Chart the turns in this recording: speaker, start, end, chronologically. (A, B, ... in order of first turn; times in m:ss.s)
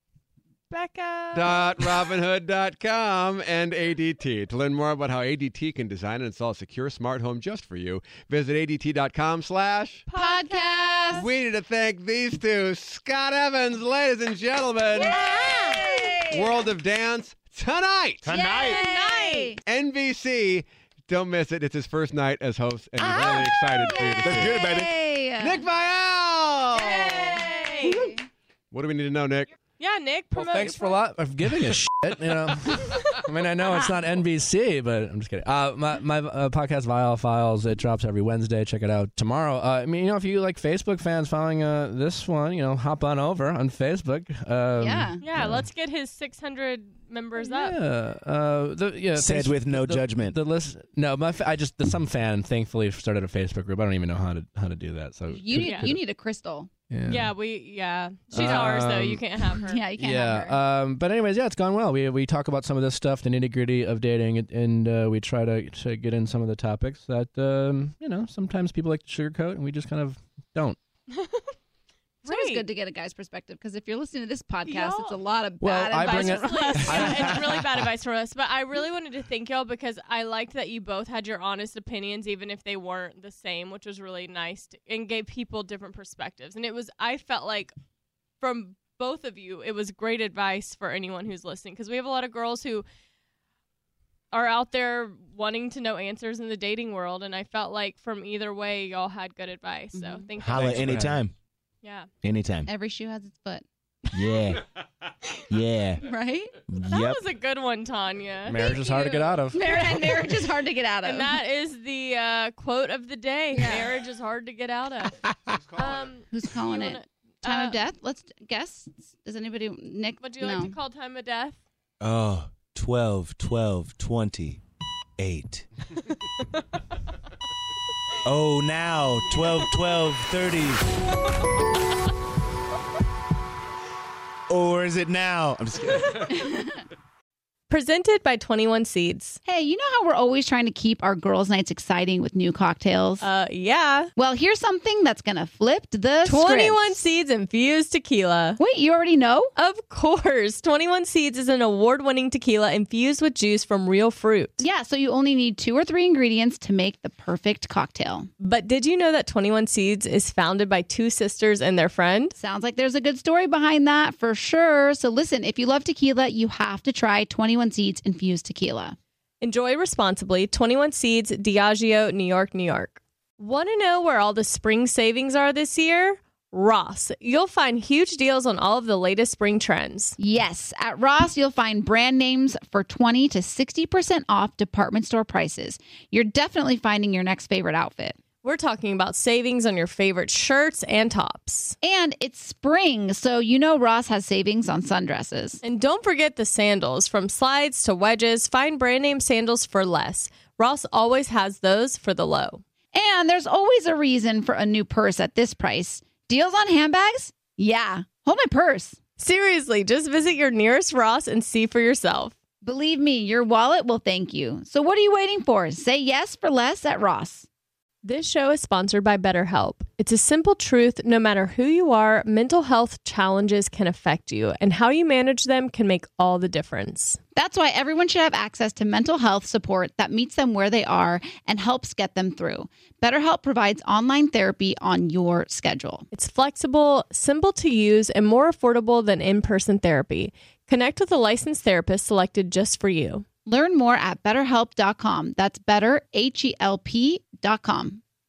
0:00.7-0:01.8 A
0:01.3-0:10.0 B
0:10.1-0:10.7 A
0:10.1-0:11.3 C
0:11.1-0:15.6 B
0:14.9-0:16.6 C
0:16.2-0:18.3 B
0:18.2-0:18.8 D
0:18.3-0:19.6 C
0:18.6-0:19.5 A
0:19.6-0:24.8 B
0:23.0-0:25.6 C
0:24.2-0:24.9 D
0:25.4-0:27.4 B
0:26.7-0:28.2 C
0:26.8-0:28.0 A
0:28.7-0:29.5 B
0:29.8-0:31.0 A
0:30.3-0:45.7 E
0:44.8-0:45.2 C
0:45.2-0:47.8 A
0:47.4-0:56.0 E
0:49.1-0:50.4 D
0:55.3-0:56.7 C
0:55.6-0:55.9 A
0:56.9-0:57.3 E
0:57.1-0:59.8 A
0:58.3-0:59.2 E
0:58.4-0:58.7 C
0:59.6-1:00.6 C
0:59.9-1:10.8 E
1:11.1-1:11.5 A
1:12.2-1:12.6 A
1:12.2-1:17.4 C
1:14.6-1:15.2 A
1:15.6-1:17.7 E
1:16.0-1:27.7 A
1:28.4-1:32.8 A
1:34.3-1:41.0 A
1:39.9-1:40.2 C
1:40.4-1:41.3 D
1:40.5-1:41.2 E
1:41.8-1:42.1 A
1:42.2-1:42.7 D
1:42.7-1:43.6 C
1:44.1-1:44.6 D
1:45.5-1:46.1 D
1:46.0-1:46.5 C
1:46.7-1:47.2 D
1:46.9-1:50.5 A
1:48.4-1:49.7 E
1:49.5-1:51.4 C
1:51.0-1:57.8 A
1:53.5-1:53.8 C
1:56.3-2:00.7 C
2:00.2-2:01.6 A
2:02.0-2:04.6 D
2:05.2-2:05.7 D
2:08.2-2:10.8 D
2:14.5-2:16.5 D
2:17.7-2:19.4 A
2:19.4-2:23.2 C
2:23.2-2:24.1 A
2:24.2-2:26.9 C
2:26.2-2:28.6 A
2:28.6-2:29.5 C
2:29.6-2:34.6 A
2:34.6-2:38.3 C
2:38.4-2:42.3 A
2:42.4-2:49.0 C
2:49.4-3:00.2 A
3:00.2-3:08.2 C
3:08.4-3:11.8 A
3:11.8-3:15.6 C
3:15.6-3:22.6 A
3:22.9-3:29.0 C
3:29.2-3:32.3 A
3:32.6-3:37.4 C
3:38.0-3:47.2 A
3:47.3-3:56.0 C
3:56.1-4:03.2 A
4:03.4-4:08.0 C